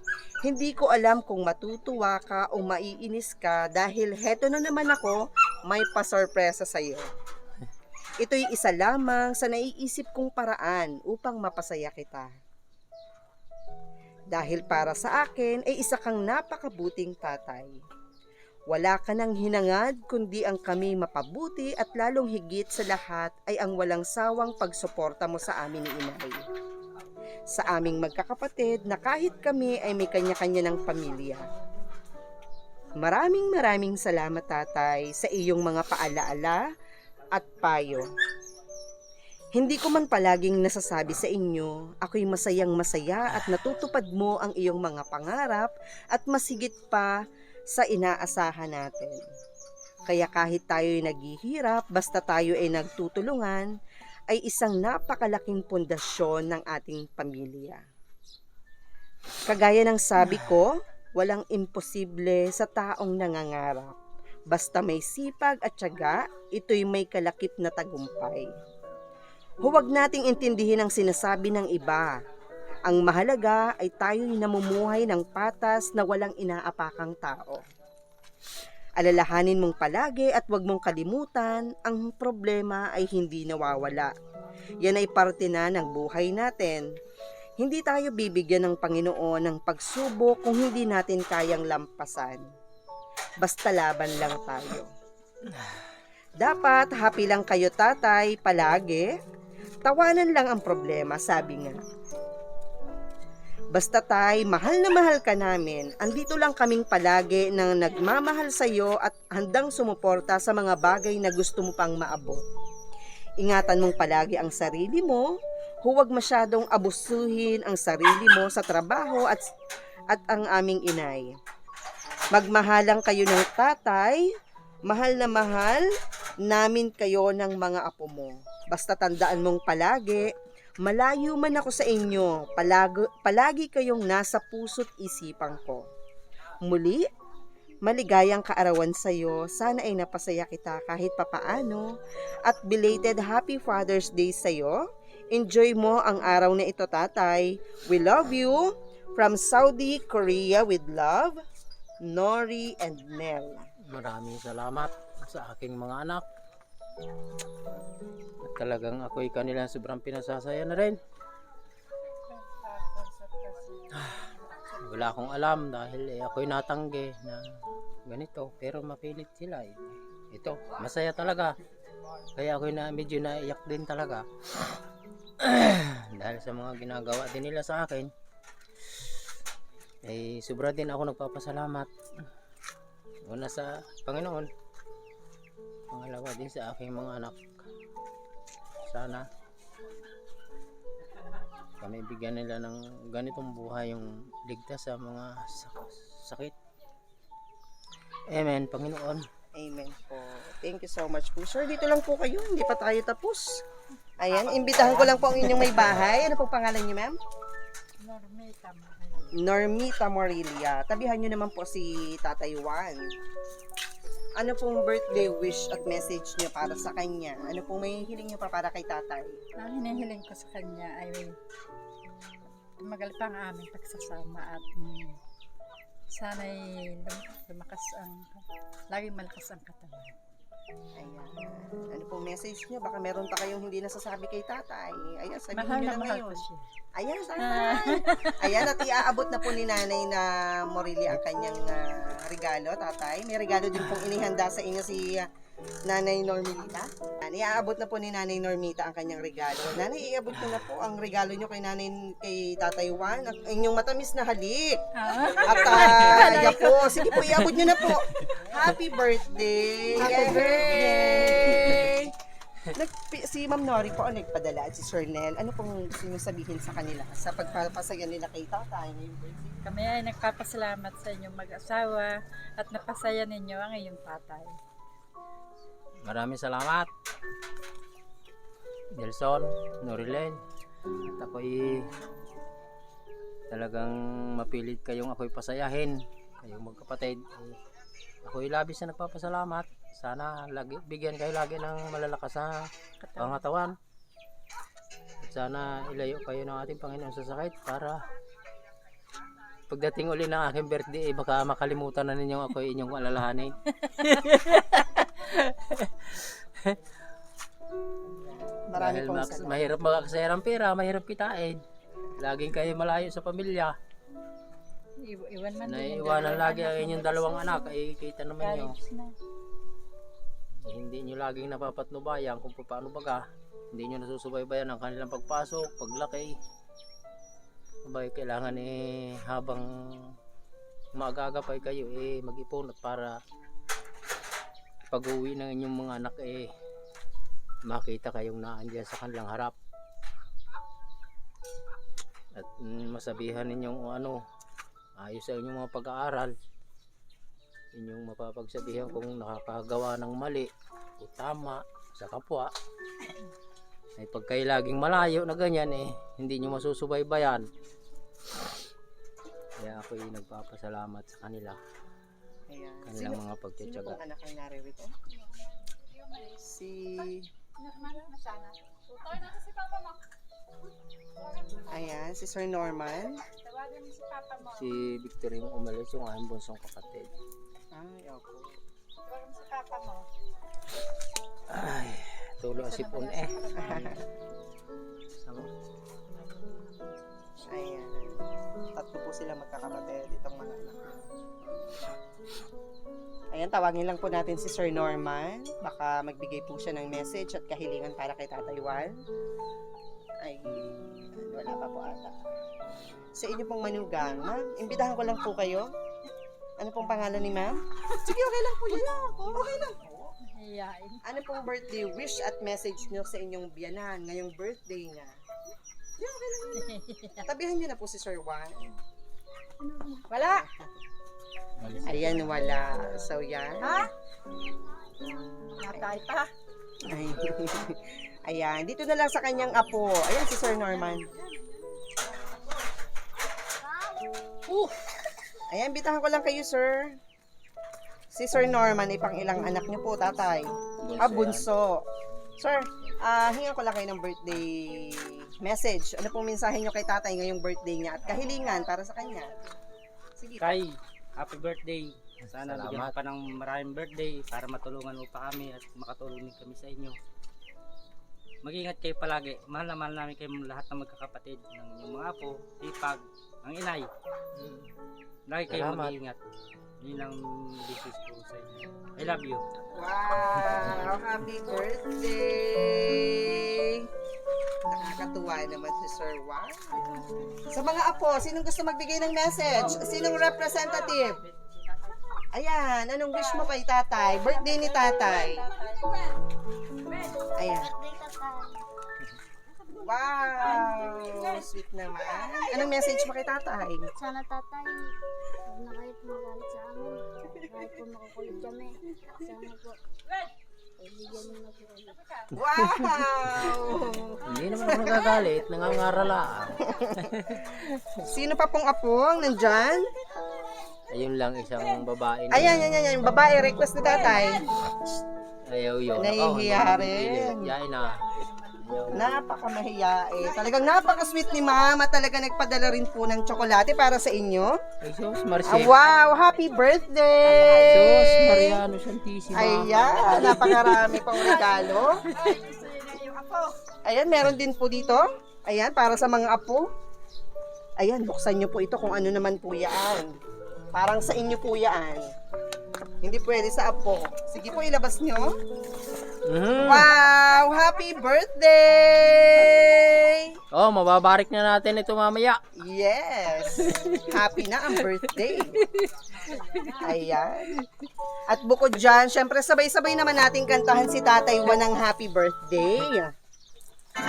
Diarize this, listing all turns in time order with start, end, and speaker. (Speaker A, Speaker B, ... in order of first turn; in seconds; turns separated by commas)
Speaker A: 0.4-7.1, Speaker A: 8.2-12.3, Speaker A: 14.3-17.8, Speaker A: 18.7-26.4, Speaker A: 27.5-31.4, Speaker A: 33.0-36.6, Speaker A: 37.3-38.1, Speaker A: 39.5-47.1, Speaker A: 47.7-49.2, Speaker A: 50.1-53.7, Speaker A: 54.3-57.8, Speaker A: 59.5-64.0, Speaker A: 64.5-68.5, Speaker A: 69.6-72.2, Speaker A: 72.8-77.6, Speaker A: 79.0-84.1, Speaker A: 84.8-86.9, Speaker A: 87.6-92.4, Speaker A: 93.4-94.9, Speaker B: 95.5-95.8, Speaker A: 96.4-99.2, Speaker A: 99.8-101.8, Speaker A: 103.7-112.4, Speaker A: 113.4-119.4, Speaker A: 120.1-121.3, Speaker A: 122.3-124.2, Speaker A: 124.9-125.8, Speaker A: 126.4-135.9, Speaker A: 136.6-137.1, Speaker A: 137.8-141.9, Speaker A: 142.4-151.4, Speaker A: 152.0-153.7, Speaker B: 153.9-156.2, Speaker B: 158.4-161.0, Speaker C: 162.3-164.2, Speaker B: 163.9-164.3, Speaker B: 164.8-167.4, Speaker B: 168.1-171.6, Speaker B: 172.3-174.2, Speaker B: 175.4-178.1, Speaker B: 180.0-181.9, Speaker B: 183.2-184.5, Speaker B: 185.9-187.7, Speaker B: 188.9-189.2, Speaker B: 191.8-196.5, Speaker B: 198.3-199.2, Speaker A: 199.5-203.6, Speaker A: 204.2-207.2, Speaker C: 204.2-205.7, Speaker C: 208.0-209.4, Speaker A: 209.3-213.0, Speaker A: 214.4-219.4, Speaker C: 219.6-221.3, Speaker C: 222.8-225.2, Speaker C: 226.1-230.1, Speaker A: 231.0-236.4, Speaker C: 235.5-236.6, Speaker A: 236.9-245.3, Speaker C: 237.4-238.8, Speaker A: 245.8-254.8, Speaker C: 254.9-257.6, Speaker A: 255.3-262.1, Speaker C: 260.0-262.0, Speaker A: 262.7-269.6, Speaker C: 269.6-274.5, Speaker B: 276.0-276.9, Speaker B: 278.9-280.4, Speaker B: 281.0-281.9, Speaker B: 283.5-287.6, Speaker B: 288.2-293.7, Speaker C: 293.0-293.4, Speaker B: 295.2-298.0, Speaker B: 299.7-306.8, Speaker A: 308.2-309.6, Speaker B: 308.7-311.6, Speaker B: 312.2-313.7, Speaker C: 315.0-317.7, Speaker B: 315.6-318.7, Speaker C: 318.4-319.1, Speaker B: 320.6-326.4, Speaker B: 327.9-330.1, Speaker B: 330.9-333.2, Speaker B: 334.9-336.5, Speaker B: 337.7-339.5, Speaker B: 342.3-344.2, Speaker B: 345.0-346.3, Speaker B: 347.7-352.5, Speaker B: 354.0-357.4, Speaker B: 359.6-361.6, Speaker A: 362.5-364.9, Speaker B: 362.9-364.0, Speaker A: 366.3-367.3, Speaker C: 367.6-369.9, Speaker C: 371.3-371.7, Speaker A: 371.7-373.2, Speaker C: 373.4-374.7, Speaker B: 374.4-377.1, Speaker A: 377.7-378.6, Speaker C: 379.1-380.1, Speaker B: 381.5-383.4, Speaker C: 382.6-384.0, Speaker A: 383.6-384.0, Speaker B: 385.2-385.5, Speaker A: 387.4-388.2, Speaker A: 388.7-391.9, Speaker A: 393.3-399.0, Speaker A: 400.2-402.2, Speaker A: 403.1-405.7, Speaker A: 406.6-410.1, Speaker C: 410.2-411.0, Speaker A: 411.0-415.1, Speaker C: 416.0-417.2, Speaker A: 417.2-418.8, Speaker C: 419.7-420.4, Speaker A: 420.2-420.7, Speaker B: 421.6-422.3, Speaker A: 421.9-423.9, Speaker C: 422.1-422.9, Speaker C: 423.6-423.9, Speaker C: 425.6-426.3, Speaker A: 425.7-425.9, Speaker A: 426.9-431.1, Speaker D: 431.4-431.9, Speaker D: 433.6-434.1, Speaker A: 435.5-437.0, Speaker A: 438.1-449.3, Speaker B: 440.8-441.5, Speaker A: 450.2-450.6, Speaker E: 450.4-457.0, Speaker B: 452.4-452.9, Speaker E: 458.4-463.9, Speaker B: 464.4-464.7, Speaker E: 465.3-466.2, Speaker B: 465.5-466.0, Speaker E: 466.8-469.4, Speaker A: 469.7-473.9, Speaker A: 474.6-481.2, Speaker A: 482.3-485.5, Speaker C: 484.5-485.9, Speaker A: 487.4-487.7, Speaker D: 487.4-488.6, Speaker A: 489.8-493.9, Speaker D: 493.9-494.7, Speaker D: 495.4-499.8, Speaker D: 500.8-502.0, Speaker C: 501.9-502.2, Speaker A: 502.3-505.1, Speaker B: 502.6-502.9, Speaker B: 504.2-507.9, Speaker A: 506.6-507.1, Speaker A: 508.0-509.9, Speaker B: 510.9-512.7, Speaker A: 512.3-514.5, Speaker C: 514.1-514.3, Speaker B: 515.5-518.0, Speaker A: 515.9-517.5, Speaker C: 517.7-519.1, Speaker B: 518.6-519.0, Speaker A: 518.9-524.6, Speaker C: 520.4-521.2, Speaker B: 524.8-525.8, Speaker A: 525.5-528.6, Speaker C: 527.2-527.8, Speaker B: 527.7-530.5, Speaker A: 529.3-532.0, Speaker C: 530.2-533.5, Speaker A: 533.8-536.7, Speaker A: 537.8-540.1, Speaker A: 540.7-542.1, Speaker A: 543.0-545.3, Speaker B: 546.2-546.9, Speaker A: 546.6-550.4, Speaker B: 550.5-552.4, Speaker A: 552.5-555.6, Speaker B: 553.7-554.0, Speaker B: 555.6-555.9, Speaker C: 556.2-556.9, Speaker A: 556.8-557.5, Speaker A: 558.3-563.1